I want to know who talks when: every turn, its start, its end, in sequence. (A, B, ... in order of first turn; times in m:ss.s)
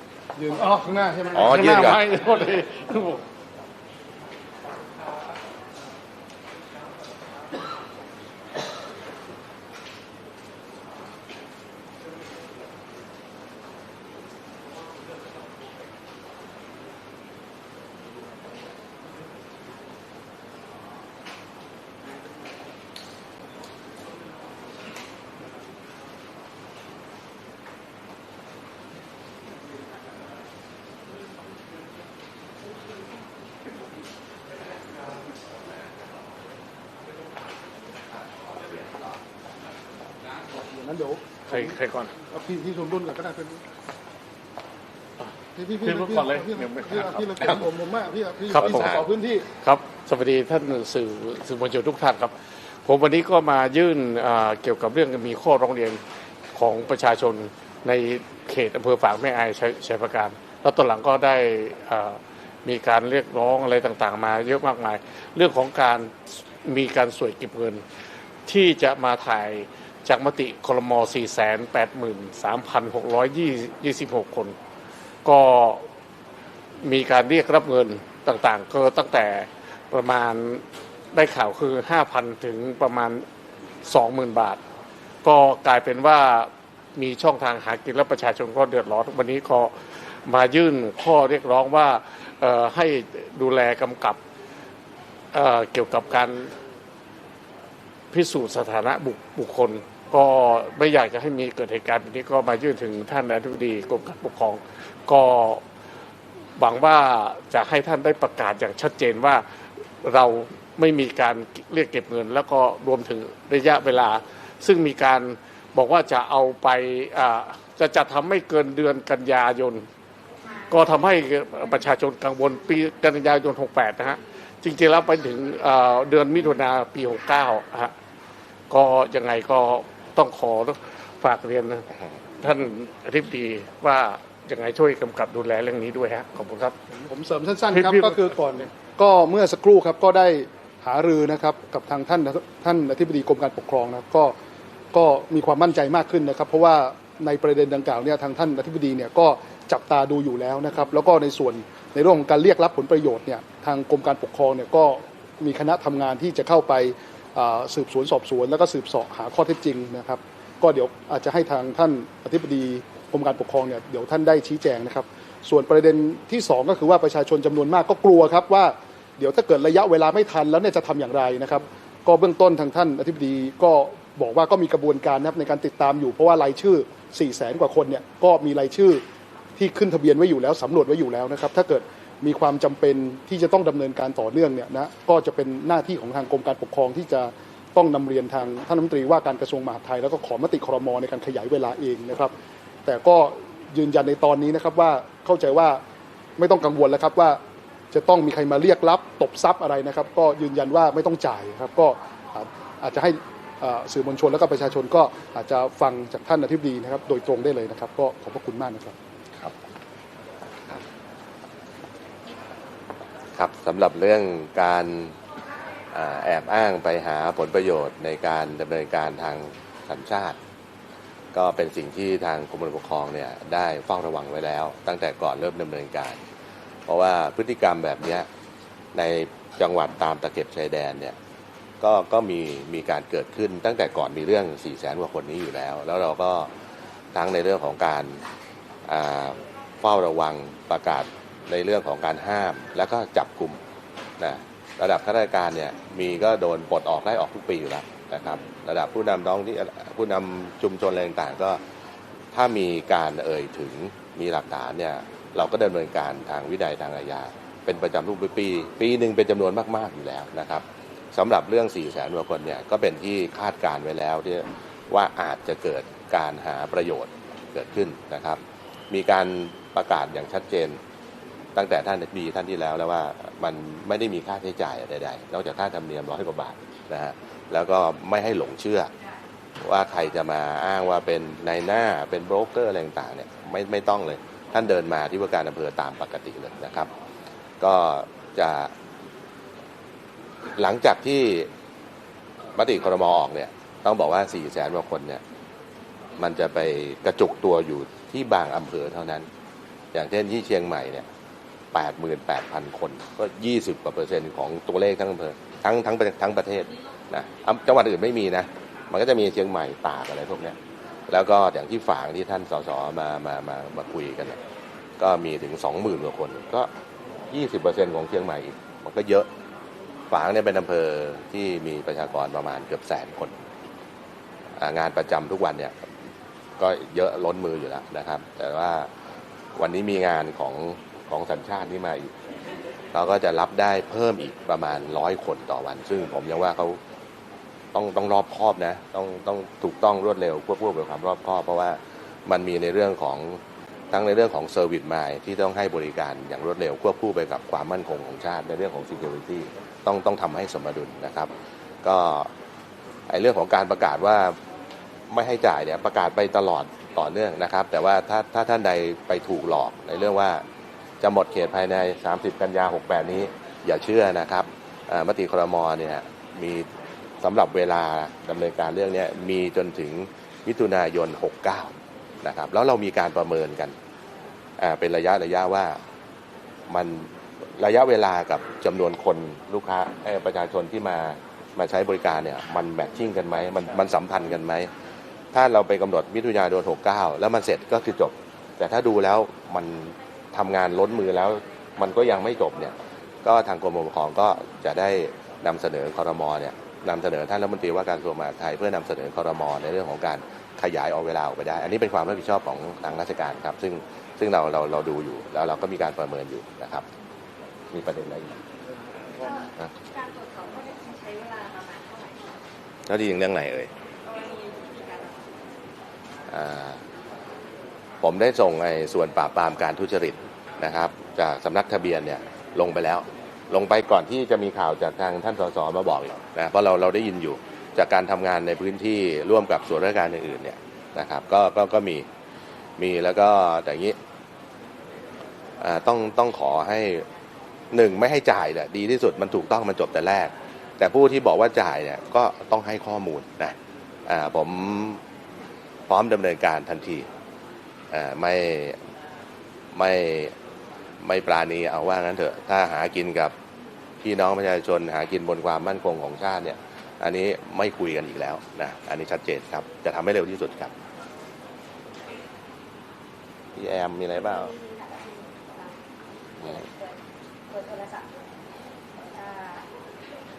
0:00.4-0:02.0 A
0:01.3-0:02.0 B
0:01.3-0:03.2 C
0:40.5-0:41.8 A
0:41.5-0:42.1 C
0:42.3-0:43.6 A
0:45.6-0:49.4 A
0:45.8-0:47.3 C
0:48.5-0:49.0 C
0:48.7-0:49.0 B
0:49.6-0:56.0 C
0:56.5-1:07.8 C
1:08.4-1:14.6 C
1:15.2-1:15.8 C
1:16.8-1:23.2 C
1:23.8-1:24.6 C
1:25.2-1:29.7 C
1:30.2-1:34.2 C
1:35.3-1:36.5 C
1:38.1-1:45.6 C
1:46.6-1:49.4 C
1:50.0-1:59.9 C
2:00.4-2:00.9 D
2:00.7-2:07.9 C
2:08.7-2:11.8 C
2:12.4-2:16.7 C
2:16.9-2:24.3 A
2:17.7-2:18.6 C
2:24.9-2:59.0 A
2:59.6-3:12.3 A
3:12.8-3:15.8 A
3:16.4-3:17.4 A
3:17.9-3:28.9 A
3:33.3-3:35.2 B
3:35.9-3:40.4 B
3:41.3-3:46.2 B
3:46.9-3:48.3 B
3:48.9-3:51.2 B
3:51.8-3:56.5 B
3:57.1-3:58.2 B
3:58.9-4:03.6 B
4:04.2-4:11.6 B
4:12.3-4:30.8 B
4:31.5-4:38.9 B
4:39.6-4:46.9 B
4:47.6-4:48.7 B
4:50.6-4:51.5 B
4:52.5-4:55.2 B
4:56.2-4:59.3 B
4:59.9-5:01.1 B
5:01.7-5:10.6 B
5:11.1-5:14.4 B
5:15.0-5:16.7 B
5:17.3-5:19.3 B
5:20.1-5:23.4 B
5:24.6-5:25.7 B
5:26.6-5:28.9 B
5:29.6-5:32.1 B
5:32.9-5:36.8 B
5:37.7-5:43.4 B
5:43.9-5:51.3 B
5:51.8-5:52.3 B
5:53.1-5:54.4 B
5:55.1-6:00.4 B
6:01.0-6:06.7 B
6:07.2-6:13.7 B
6:14.6-6:15.8 B
6:16.7-6:24.7 B
6:25.3-6:46.8 B
6:47.7-6:48.4 B
6:50.1-6:52.2 D
6:52.8-6:53.7 B
6:54.1-6:55.0 D
6:56.3-6:56.8 B
6:58.0-7:12.0 B
7:12.8-7:14.0 B
7:15.6-7:17.0 B
7:17.7-7:23.6 B
7:24.1-7:25.0 B
7:25.9-7:27.1 B
7:27.9-7:28.8 B
7:29.7-7:30.3 B
7:31.0-7:33.3 B
7:34.0-7:40.7 B
7:43.5-7:44.5 B
7:44.1-7:48.1 D
7:49.1-7:49.7 D